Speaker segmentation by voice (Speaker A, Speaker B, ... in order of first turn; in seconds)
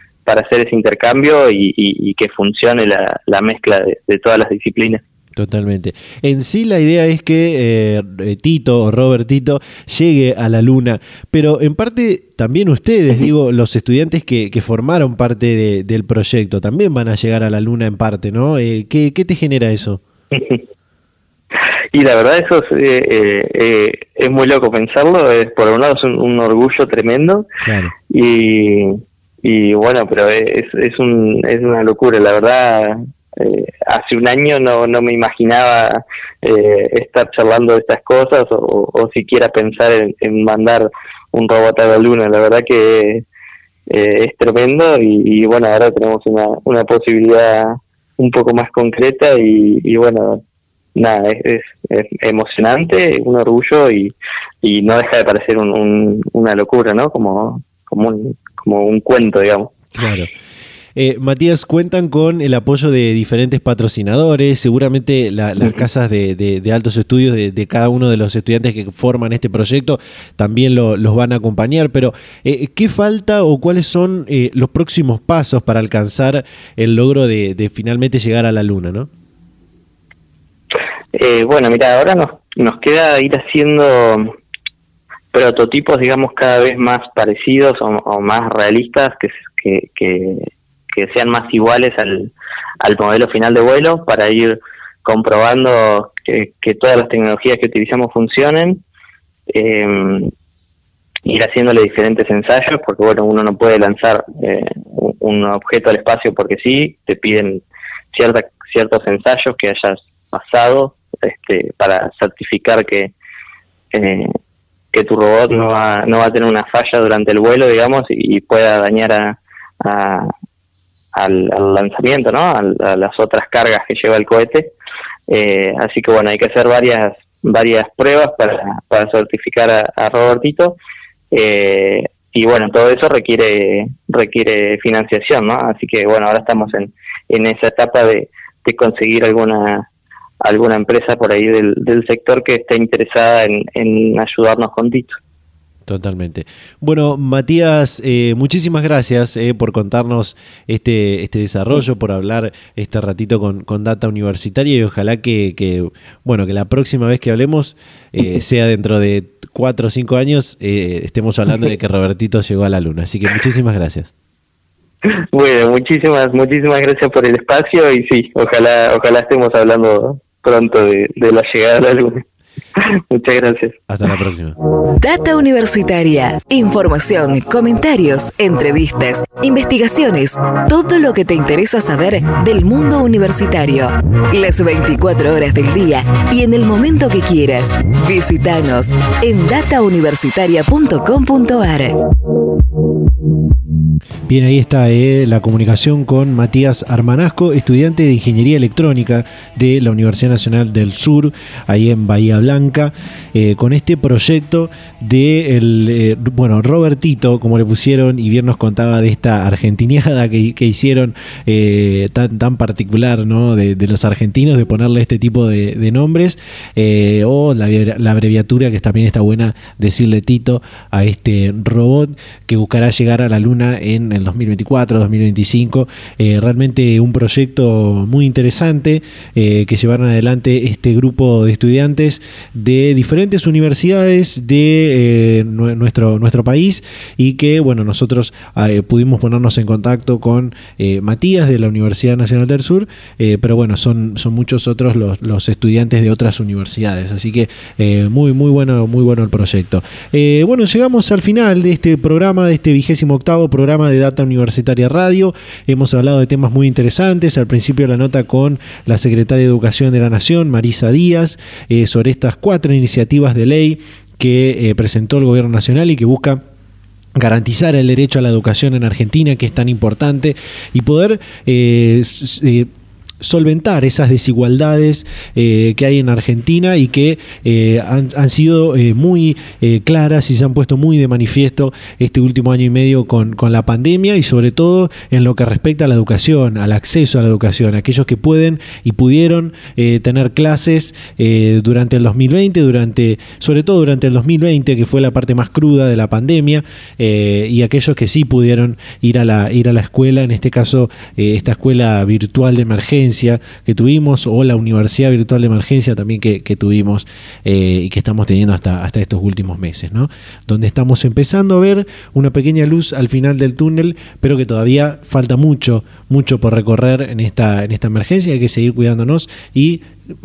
Speaker A: 0.2-5.0, 20.3-20.6, 21.9-27.4, 28.1-43.2, 43.9-50.4, 51.0-59.7, 81.1-84.3, 85.3-98.8, 99.5-100.3, 101.2-113.1, 113.9-114.3, 114.9-120.3, 121.1-124.7, 125.3-130.8, 131.3-139.9, 140.4-145.2, 165.1-172.2, 172.8-173.7
Speaker B: 5.3-20.0, 27.6-27.9, 59.9-60.3, 61.0-79.1, 145.8-164.1, 173.9-174.6, 194.3-266.4, 267.1-272.7, 273.2-319.9
Speaker C: 175.0-191.9